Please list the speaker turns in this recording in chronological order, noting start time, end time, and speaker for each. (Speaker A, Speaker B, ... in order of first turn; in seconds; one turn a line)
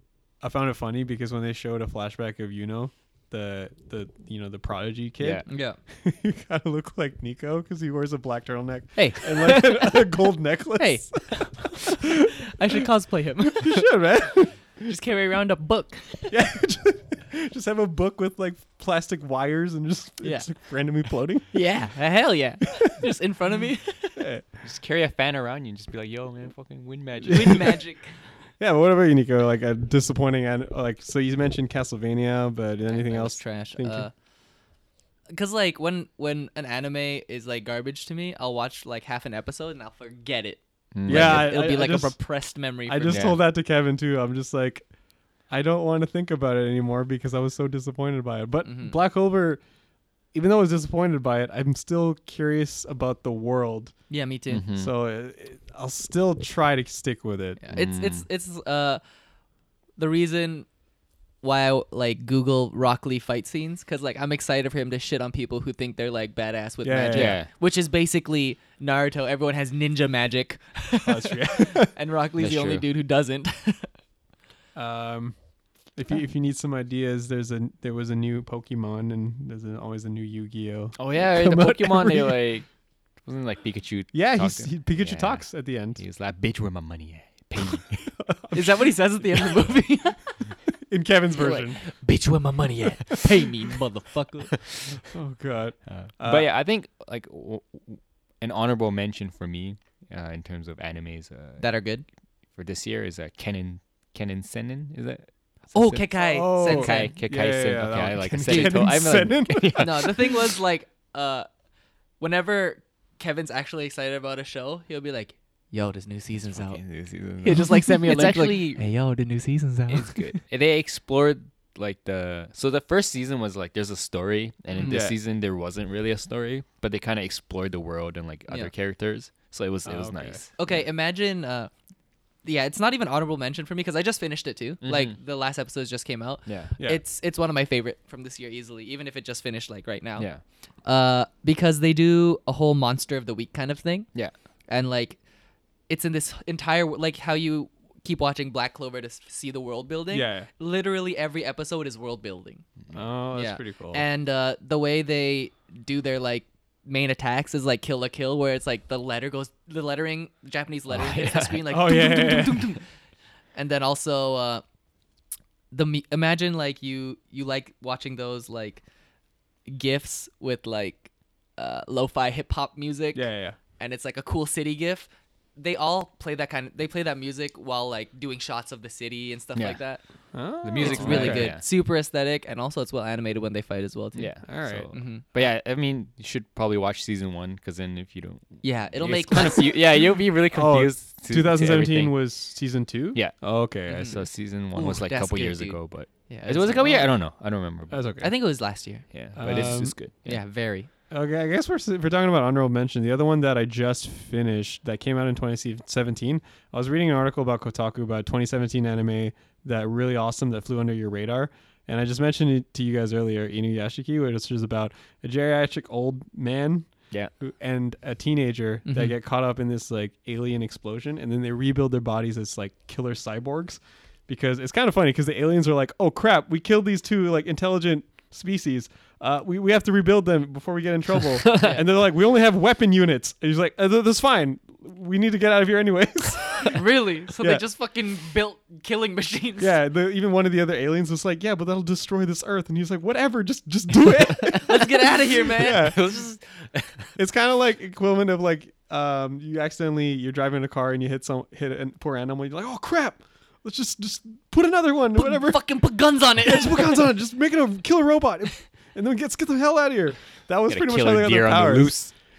Speaker A: 0.4-5.4
Speaker B: 5.2-5.5
Speaker C: 5.5-5.8
Speaker A: 6.0-12.8
Speaker C: 8.9-10.2
Speaker C: 10.8-13.8
Speaker A: 13.6-14.9
Speaker C: 14.8-16.3
Speaker A: 16.3-21.5
Speaker C: 20.2-20.5
Speaker C: 21.5-24.2
Speaker A: 24.2-24.4
Speaker B: 24.6-27.8
Speaker A: 27.2-27.8
Speaker C: 27.3-28.1
Speaker A: 28.6-34.1
Speaker C: 32.9-34.1
Speaker C: 35.3-43.3
Speaker B: 40.9-41.5
Speaker A: 41.0-42.2
Speaker A: 42.9-44.9
Speaker B: 43.1-43.4
Speaker A: 45.5-49.6
Speaker C: 48.6-48.9
Speaker A: 50.3-53.9
Speaker C: 54.1-54.6
Speaker B: 54.5-54.9
Speaker A: 54.7-57.6
Speaker C: 57.6-59.0
Speaker B: 57.7-58.2
Speaker C: 60.0-60.7
Speaker C: 61.4-73.9
Speaker A: 66.8-67.4
Speaker B: 67.1-67.5
Speaker A: 71.0-71.9
Speaker B: 72.4-72.8
Speaker A: 74.7-75.3
Speaker A: 75.9-82.5
Speaker B: 81.0-82.7
Speaker B: 83.2-85.4
Speaker A: 84.1-86.0
Speaker B: 86.0-88.1
Speaker A: 88.2-88.9
Speaker C: 88.5-90.4
Speaker A: 90.7-91.8
Speaker C: 91.4-94.5
Speaker B: 94.5-95.1
Speaker A: 95.1-96.5
Speaker B: 95.9-101.7
Speaker C: 101.6-102.0
Speaker B: 102.5-106.1
Speaker C: 105.7-107.1
Speaker A: 106.1-110.3
Speaker B: 106.6-110.3
Speaker C: 109.8-111.5
Speaker C: 112.2-116.8
Speaker B: 116.5-118.8
Speaker C: 117.4-120.4
Speaker B: 119.9-130.8
Speaker A: 124.8-125.2
Speaker A: 129.9-130.4
Speaker C: 130.6-131.7
Speaker C: 132.4-140.3
Speaker B: 134.8-135.2
Speaker B: 136.4-136.7
Speaker C: 140.8-144.1
Speaker C: 144.7-145.2
Speaker C: 145.9-152.6
Speaker A: 150.1-150.5
Speaker A: 152.9-154.0
Speaker C: 153.4-162.8
Speaker B: 160.9-161.6
Speaker A: 161.7-162.7
Speaker C: 163.6-164.6
Speaker C: 165.7-168.8
Speaker C: 169.7-180.0
Speaker A: 173.1-173.6
Speaker A: 180.3-181.5
Speaker B: 180.6-181.6
Speaker C: 180.8-184.3
Speaker B: 184.1-192.2
Speaker A: 184.4-184.9
Speaker C: 184.9-185.2
Speaker C: 188.6-189.7
Speaker A: 190.5-194.1
Speaker B: 193.1-198.1
Speaker C: 193.9-197.1
Speaker A: 197.9-198.3
Speaker C: 198.2-199.1
Speaker B: 199.1-200.4
Speaker A: 199.4-199.9
Speaker C: 200.2-200.9
Speaker A: 201.1-236.8
Speaker C: 218.9-219.1
Speaker B: 231.4-231.8
Speaker C: 236.7-239.7
Speaker A: 239.6-246.1
Speaker C: 244.5-246.3
Speaker B: 245.8-247.1
Speaker A: 247.2-255.6
Speaker C: 255.1-257.1
Speaker A: 256.4-262.0
Speaker B: 260.7-262.1